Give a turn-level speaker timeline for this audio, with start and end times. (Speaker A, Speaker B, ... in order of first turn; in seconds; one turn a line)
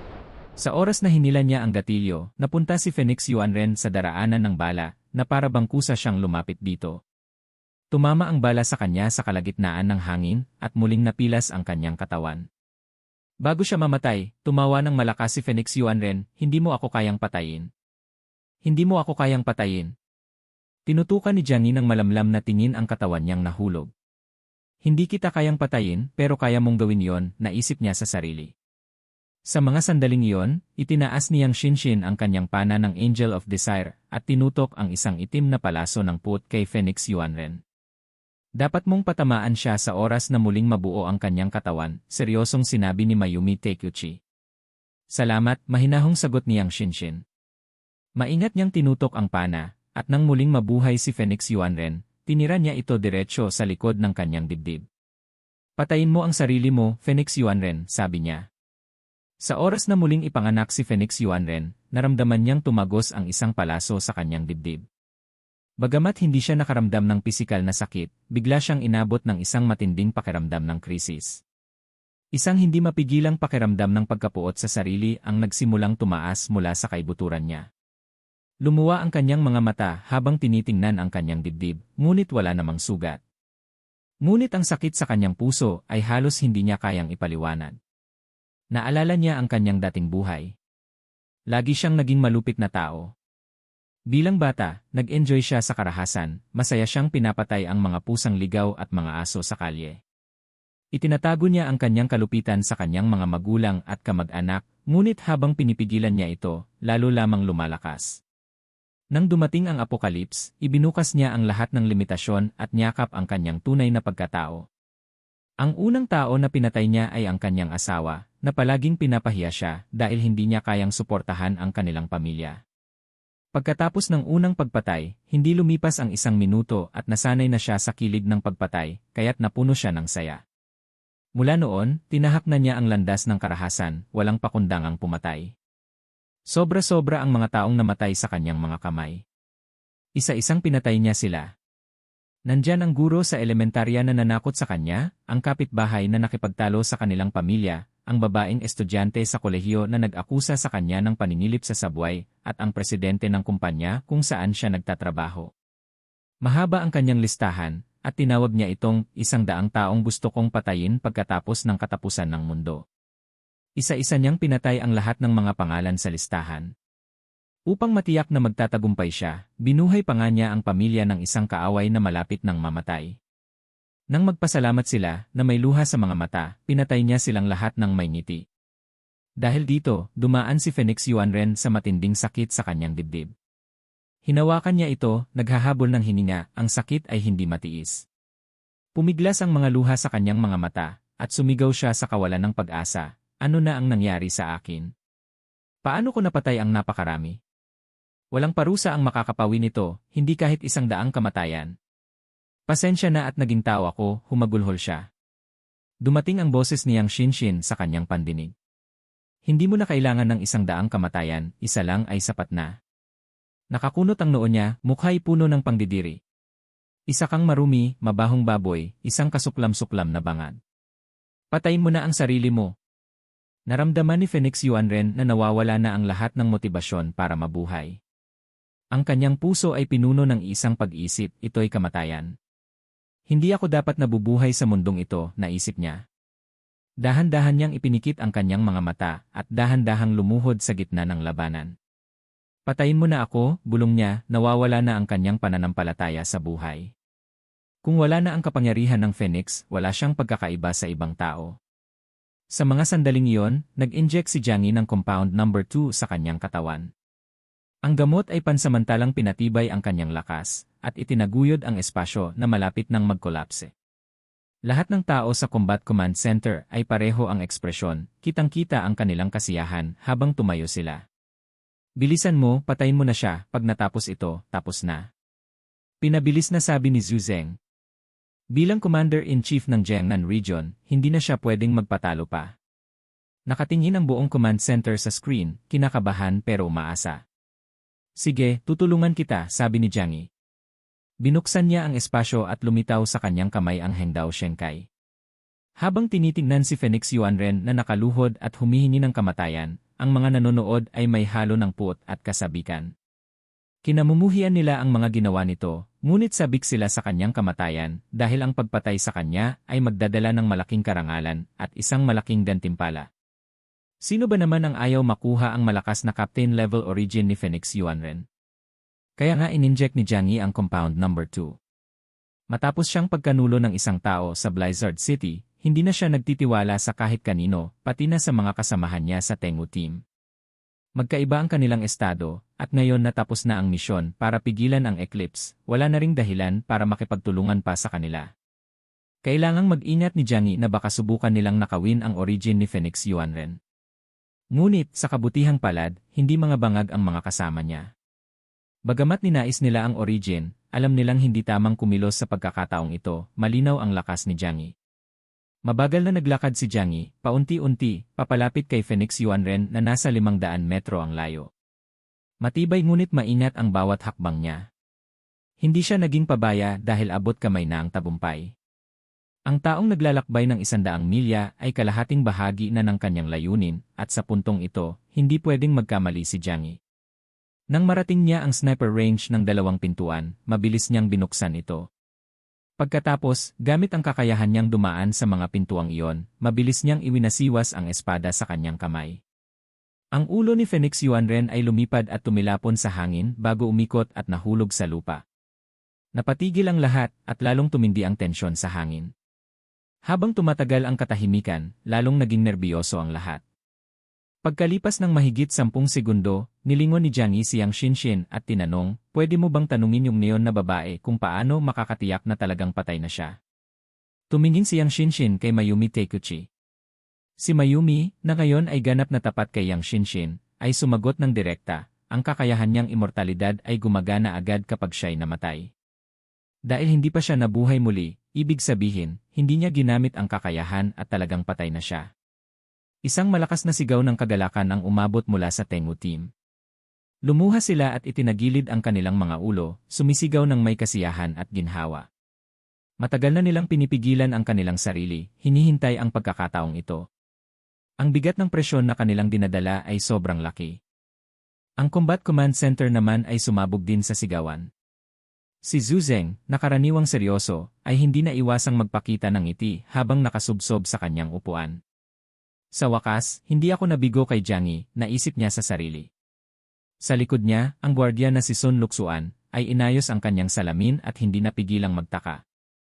Speaker A: 0.6-7.0
Speaker A: 7.9-12.4
Speaker A: 13.4-17.7
Speaker A: 18.6-19.9
Speaker A: 20.9-23.9
Speaker A: 24.8-28.5
Speaker A: 29.5-37.6
Speaker A: 38.6-44.2
Speaker A: 45.1-47.2
Speaker A: 48.2-54.9
Speaker A: 55.8-58.4
Speaker A: 59.4-64.8
Speaker A: 65.8-71.4
Speaker A: 72.3-77.7
Speaker A: 78.7-83.2
Speaker A: 84.2-87.8
Speaker A: 88.7-90.5
Speaker A: 91.5-93.1
Speaker A: 94.1-100.0
Speaker A: 101.0-108.2
Speaker A: 109.1-114.6
Speaker A: 115.6-122.6
Speaker A: 123.5-130.4
Speaker A: 131.4-135.5
Speaker A: 136.5-139.2
Speaker A: 140.2-141.5
Speaker A: 142.5-155.5
Speaker A: 156.4-162.8
Speaker A: 163.8-166.7
Speaker A: 167.7-173.2
Speaker A: 174.1-178.4
Speaker A: 179.4-183.3
Speaker A: 184.3-188.1
Speaker A: 189.0-194.9
Speaker A: 195.8-197.4
Speaker A: 198.3-201.7
Speaker A: 202.7-205.1
Speaker A: 206.0-208.5
Speaker A: 209.5-212.7
Speaker A: 213.7-216.2
Speaker A: 217.1-220.6
Speaker A: 221.5-222.7
Speaker A: 223.7-228.0
Speaker A: 228.9-232.3
Speaker A: 233.3-236.0
Speaker A: 237.0-241.7
Speaker A: 242.7-246.9
Speaker A: 247.8-251.6
Speaker A: 252.5-256.9
Speaker A: 257.9-263.7
Speaker A: 264.7-271.0
Speaker A: 272.0-275.1
Speaker A: 276.0-277.6
Speaker A: 278.5-282.5
Speaker A: 283.5-287.2
Speaker A: 288.2-290.3
Speaker A: 291.2-294.8
Speaker A: 295.8-302.9
Speaker A: 303.9-313.1
Speaker A: 314.1-318.2
Speaker A: 319.2-321.6
Speaker A: 322.5-330.0
Speaker A: 331.0-338.3
Speaker A: 339.2-343.6
Speaker A: 344.6-347.9
Speaker A: 348.9-354.7
Speaker A: 355.7-361.5
Speaker A: 362.4-364.6
Speaker A: 365.6-368.5
Speaker A: 369.5-376.8
Speaker A: 377.7-381.9
Speaker A: 382.8-389.2
Speaker A: 390.1-395.2
Speaker A: 396.1-399.1
Speaker A: 400.1-403.4
Speaker A: 404.4-413.4
Speaker A: 414.3-416.4
Speaker A: 417.4-425.7
Speaker A: 426.7-432.1
Speaker A: 433.1-436.3
Speaker A: 437.3-442.1
Speaker A: 443.0-447.0
Speaker A: 448.0-450.8
Speaker A: 451.8-454.7
Speaker A: 455.6-461.8
Speaker A: 462.8-466.1
Speaker A: 467.0-472.4